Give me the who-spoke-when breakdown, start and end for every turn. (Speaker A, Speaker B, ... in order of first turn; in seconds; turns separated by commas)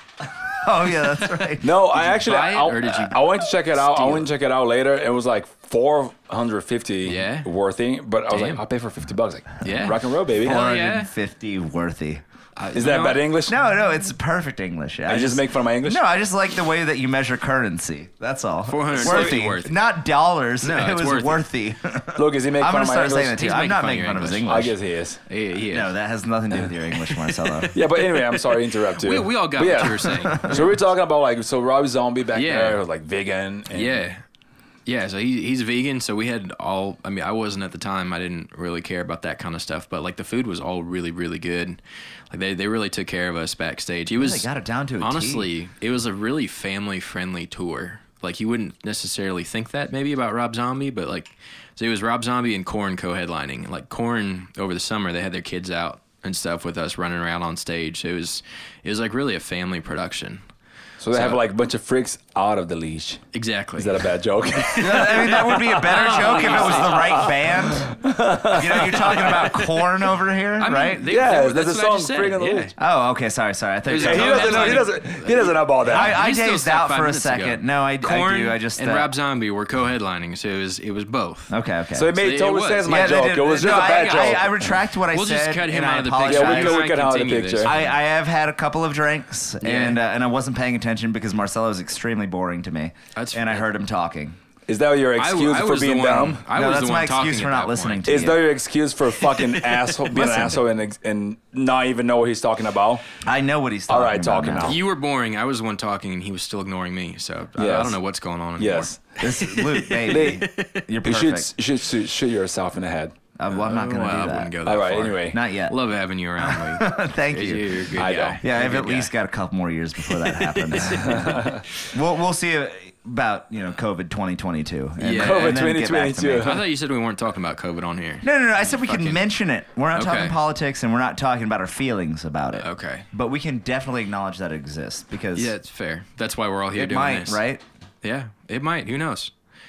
Speaker A: 0.5-1.8, Speaker B: 1.6-10.6, Speaker C: 1.9-4.3, Speaker C: 7.0-7.5, Speaker C: 8.3-8.6, Speaker C: 9.6-11.1, Speaker A: 10.4-12.2, Speaker C: 12.6-13.2, Speaker B: 12.7-13.6, Speaker A: 13.5-24.8, Speaker B: 15.1-16.0, Speaker C: 18.7-19.7, Speaker B: 18.9-19.5, Speaker C: 20.6-21.4, Speaker B: 22.2-23.4, Speaker C: 23.4-24.6, Speaker B: 24.5-25.2, Speaker C: 25.3-25.9, Speaker A: 25.7-27.8, Speaker C: 26.9-30.7, Speaker B: 27.7-34.0, Speaker A: 30.2-30.6, Speaker C: 32.3-32.8, Speaker C: 33.7-34.2, Speaker C: 34.9-41.8, Speaker C: 42.3-44.5, Speaker A: 44.1-45.5, Speaker C: 45.0-60.4, Speaker B: 61.0-63.2, Speaker C: 61.1-61.4, Speaker C: 63.3-67.3, Speaker B: 63.8-69.4, Speaker A: 64.8-71.0, Speaker C: 68.9-69.7, Speaker C: 70.6-72.7, Speaker B: 71.0-72.7, Speaker A: 72.8-74.9, Speaker C: 73.9-81.5, Speaker B: 74.0-76.2, Speaker A: 75.9-79.1, Speaker A: 81.5-82.1, Speaker B: 81.9-84.7, Speaker C: 82.1-87.9, Speaker A: 82.9-86.8, Speaker B: 86.3-87.7, Speaker A: 87.6-94.4, Speaker C: 89.6-90.0, Speaker C: 93.2-93.7, Speaker B: 94.7-96.5, Speaker C: 95.2-98.2, Speaker A: 96.5-98.4, Speaker B: 98.1-103.0, Speaker A: 100.1-100.6, Speaker A: 103.2-104.8, Speaker B: 103.9-104.8, Speaker C: 104.6-110.8, Speaker B: 107.6-108.0, Speaker B: 108.6-109.0, Speaker A: 109.2-111.5, Speaker B: 110.1-110.5, Speaker B: 111.0-113.2, Speaker A: 113.4-114.5, Speaker C: 113.5-119.1, Speaker B: 114.6-115.4, Speaker A: 115.3-115.8, Speaker A: 116.4-126.5, Speaker B: 118.0-118.4, Speaker C: 120.0-121.5, Speaker B: 120.9-121.6, Speaker C: 125.0-125.6, Speaker B: 125.1-126.7, Speaker C: 126.4-129.3, Speaker A: 128.2-135.5, Speaker C: 129.9-130.4, Speaker C: 132.6-133.1, Speaker C: 135.3-137.4, Speaker A: 136.7-137.6, Speaker C: 138.0-139.3